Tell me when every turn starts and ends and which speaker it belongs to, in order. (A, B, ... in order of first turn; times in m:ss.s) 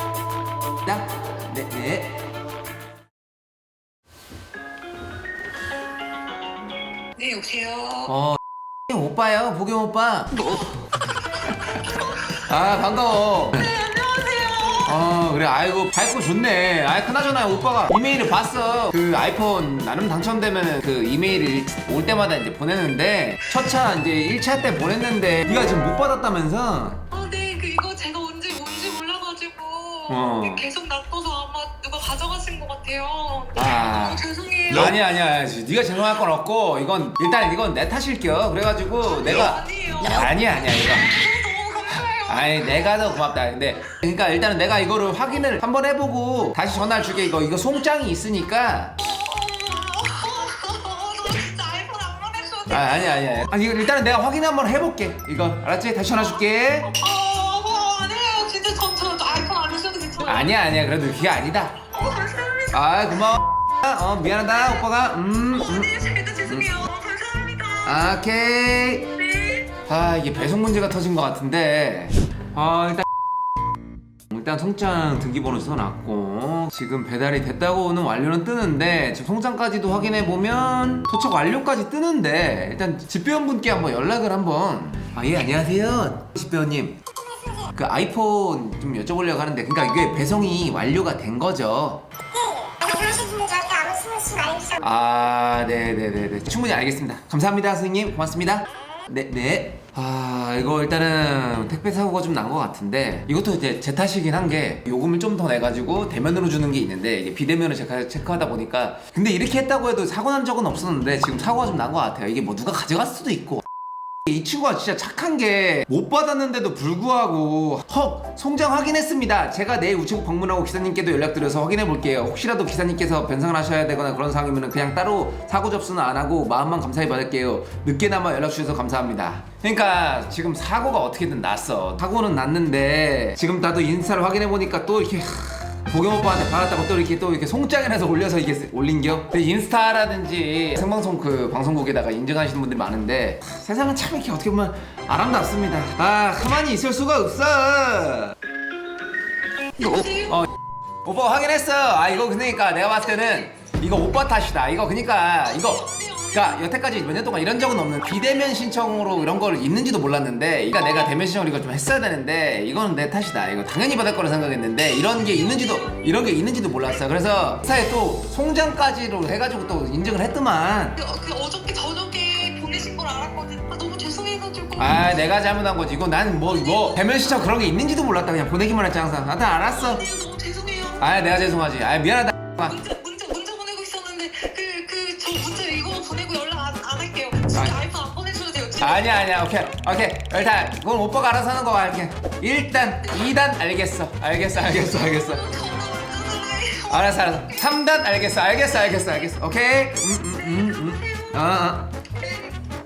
0:00.8-0:02.1 A
0:07.2-0:08.1 B
0:08.1-0:10.5 A
0:11.3-0:12.4 B
0:12.3-0:13.7 A
0:13.6-0:15.0 B
0:14.8-0:27.0 A
0:27.1-0:35.0 B
0:30.1-0:30.6 A
0:33.6-0:41.1 A
0:39.0-0:43.2 B
0:42.1-0:49.0 A
0:49.0-0:53.5 B
0:52.7-0:56.9 A
0:56.9-1:00.6 B
1:00.2-1:01.9 A
1:01.8-1:03.0 B
1:02.7-1:06.8 A
1:05.4-1:08.2 B
1:07.8-1:09.1 A
1:09.1-1:09.7 B
1:09.9-1:13.1 A
1:14.3-1:27.0 A
1:27.6-1:32.1 A
1:32.4-1:34.8 C
1:34.8-1:53.6 A
1:54.3-2:28.4 A
2:29.8-2:30.5 B
2:31.0-2:51.0 A
2:35.5-2:36.7 B
2:51.0-2:55.1 B
2:54.8-3:00.1 A
2:56.5-2:57.2 B
2:59.7-3:01.1 B
3:01.0-3:02.8 A
3:02.6-3:09.2 B
3:08.8-3:15.4 A
3:14.8-3:17.8 B
3:16.9-3:21.9 A
3:20.2-3:22.6 B